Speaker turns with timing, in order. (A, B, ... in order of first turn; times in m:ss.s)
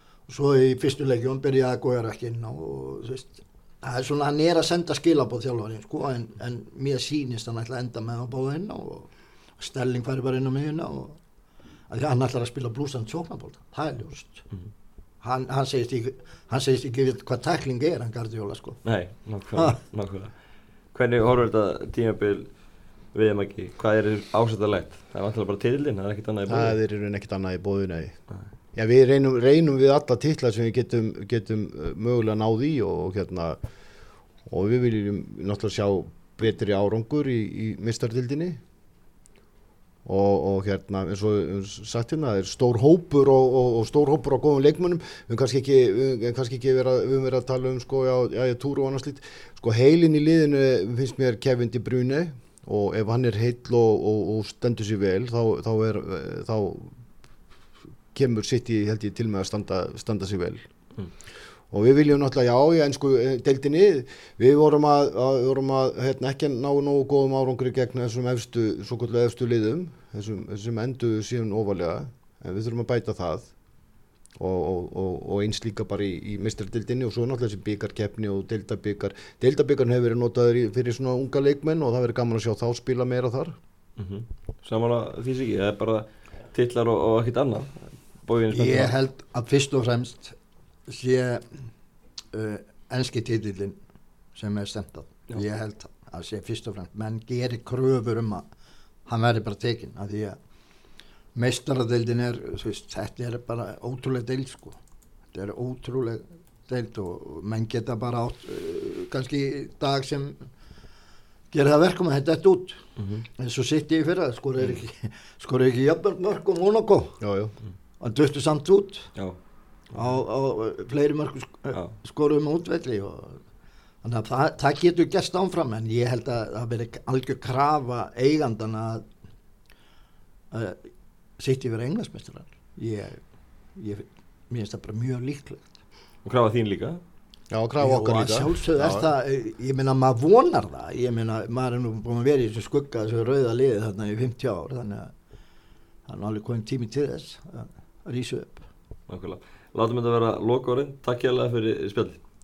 0:00.3-0:11.2 A
0:11.9-0:14.4 A
0:15.2-0:18.8 A
0:18.8-0:20.3 B
0:20.9-0:22.5 B
0:23.1-0:26.7 B
0:26.5-0:28.2 C
0:28.7-0:33.6 C
0:34.5-0:38.6 C
0:40.0-0:56.9 C
0:58.1-1:00.6 C
1:01.7-1:13.5 C
1:14.4-1:23.6 C
1:24.0-1:28.9 B
1:28.5-1:30.3 A
1:30.9-1:31.4 A
1:32.3-1:33.8 A
1:34.3-1:38.4 A
1:39.1-1:40.4 A
1:41.3-1:44.8 A
1:45.3-1:50.4 A
1:51.5-1:52.8 A
1:53.0-1:53.2 B
1:53.4-1:57.2 A
1:57.2-1:57.5 C
1:58.0-1:59.1 A
1:59.9-2:03.4 A
2:04.0-2:09.0 A
2:10.5-2:10.8 A
2:11.4-2:13.2 A
2:13.8-2:15.7 A
2:16.2-2:17.0 B
2:17.5-2:19.1 C
2:17.8-2:25.1 A
2:26.1-2:28.6 A
2:29.1-2:32.2 B